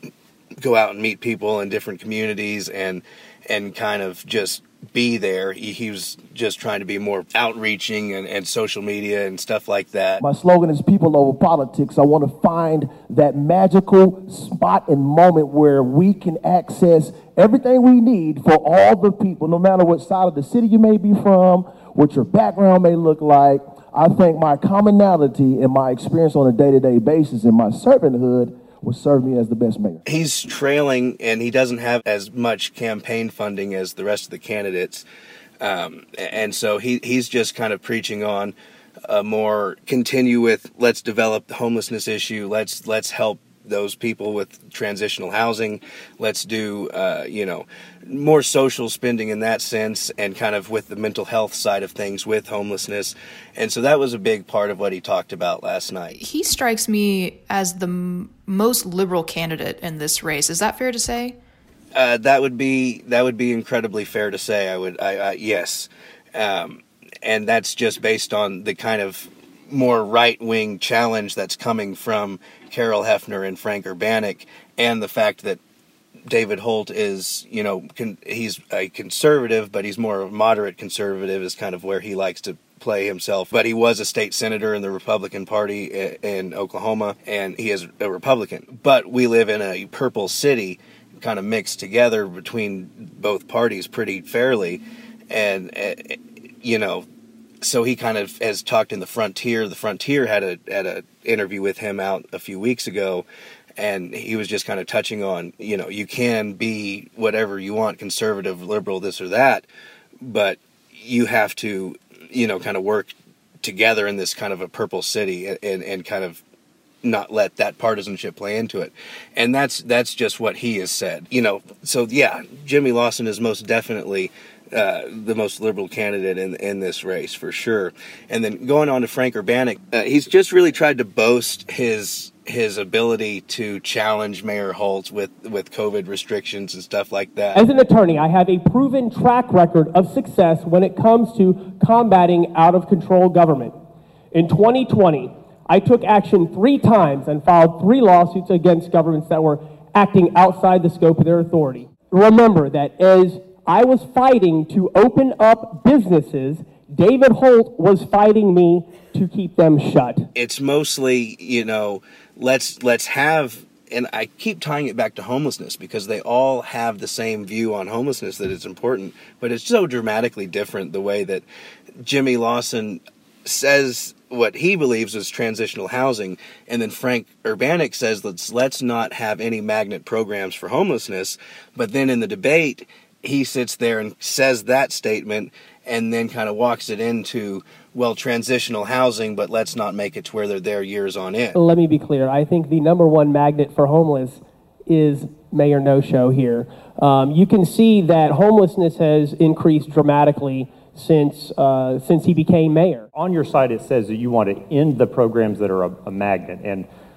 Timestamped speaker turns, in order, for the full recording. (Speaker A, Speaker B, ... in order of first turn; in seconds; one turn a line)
Speaker A: 0.6-10.2
Speaker B: 10.2-30.0
Speaker A: 30.1-35.0
Speaker A: 35.6-38.5
Speaker A: 39.1-56.2
Speaker C: 56.2-61.4
Speaker A: 62.0-75.6
Speaker A: 76.3-97.1
Speaker A: 97.6-103.2
Speaker A: 103.8-109.7
Speaker A: 110.2-116.4
Speaker A: 117.0-137.6
Speaker D: 137.5-143.7
Speaker D: 144.3-160.3
Speaker A: 160.3-171.4
Speaker A: 172.0-191.6
Speaker D: 191.6-203.1
Speaker E: 203.1-206.9